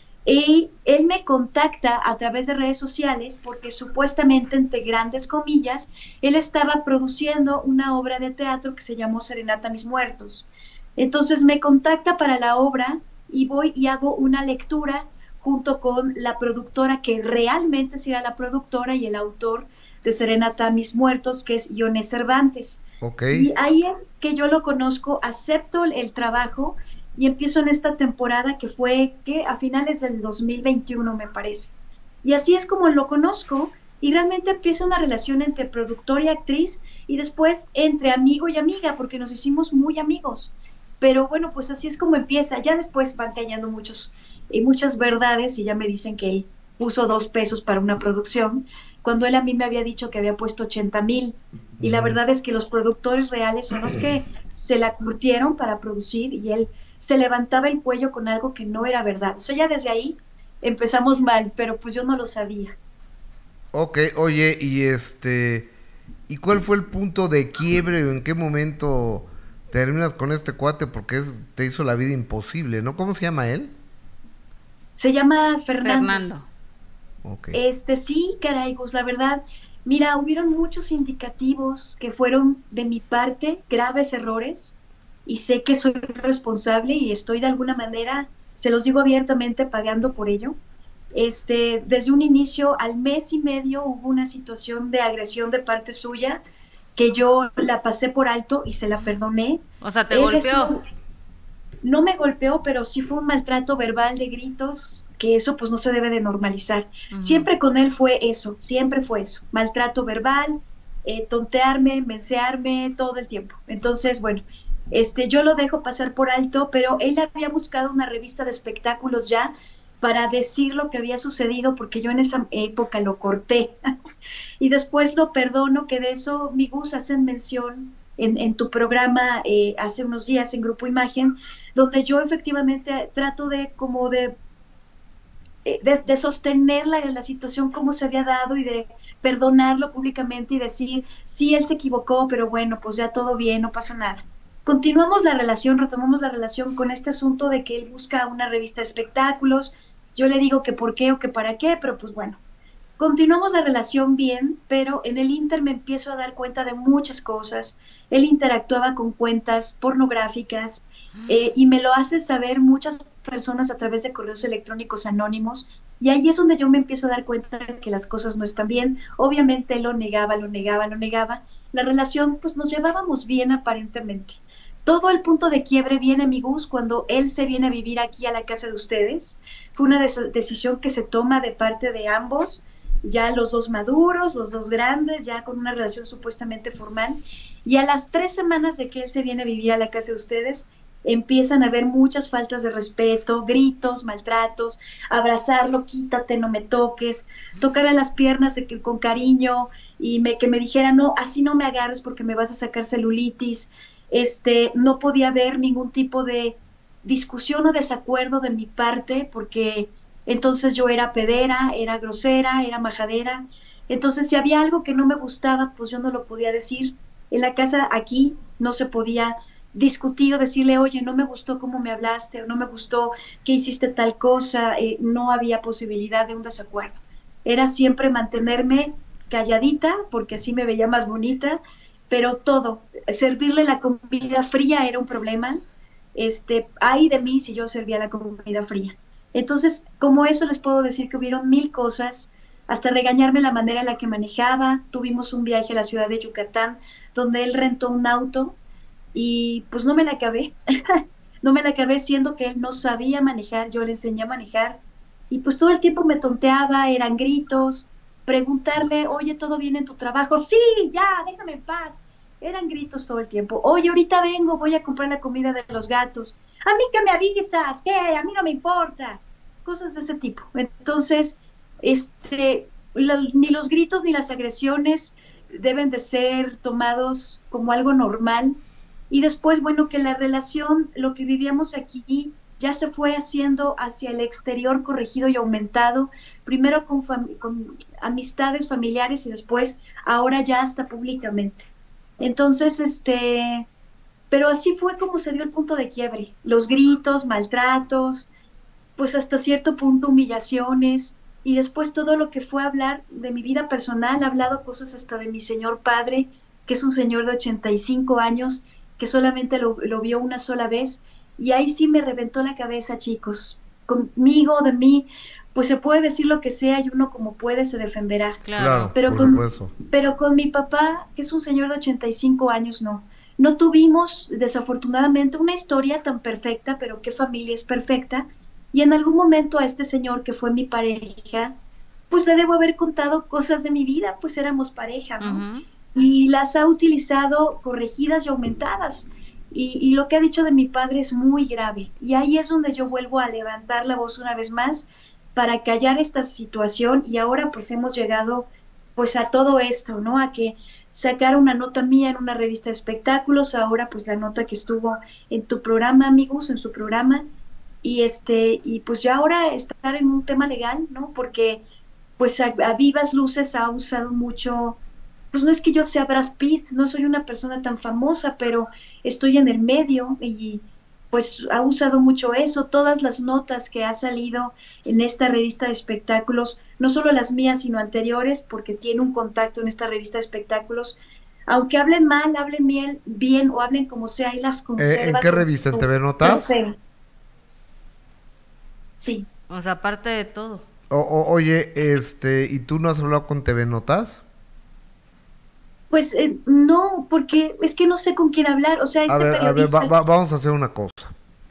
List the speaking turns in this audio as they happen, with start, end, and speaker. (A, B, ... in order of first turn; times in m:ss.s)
0:00.3-0:31.7 A
0:23.0-0:23.5 B
0:32.2-1:02.8 A
0:51.8-0:52.2 B
1:03.7-1:05.7 B
1:06.3-1:13.7 B
1:15.0-1:16.2 A
1:15.8-1:16.5 C
1:17.2-1:17.6 B
1:17.5-1:30.6 A
1:31.1-1:36.4 A
1:37.0-1:40.8 A
1:39.8-1:40.8 C
1:41.8-2:03.8 A
1:47.1-1:47.5 C
2:04.6-2:14.4 A
2:15.6-2:32.4 A
2:33.0-3:55.6 A
2:41.2-2:41.5 C
3:56.2-4:08.6 A
4:09.1-4:14.8 A
4:15.3-4:38.6 A
4:39.1-4:51.7 A
4:52.2-4:53.7 A
4:54.3-4:58.3 A
4:59.0-5:18.4 A
5:18.4-5:19.0 C
5:18.6-5:19.7 B
5:19.0-5:31.6 A
5:32.1-5:57.2 A
5:35.2-5:35.6 C
5:57.8-6:01.6 A
6:02.2-6:04.8 A
6:05.3-6:26.8 A
6:24.8-6:26.5 B
6:29.0-6:29.3 A
6:29.5-6:30.6 C
6:30.9-6:34.2 B
6:35.9-6:40.0 A
6:39.1-6:41.1 B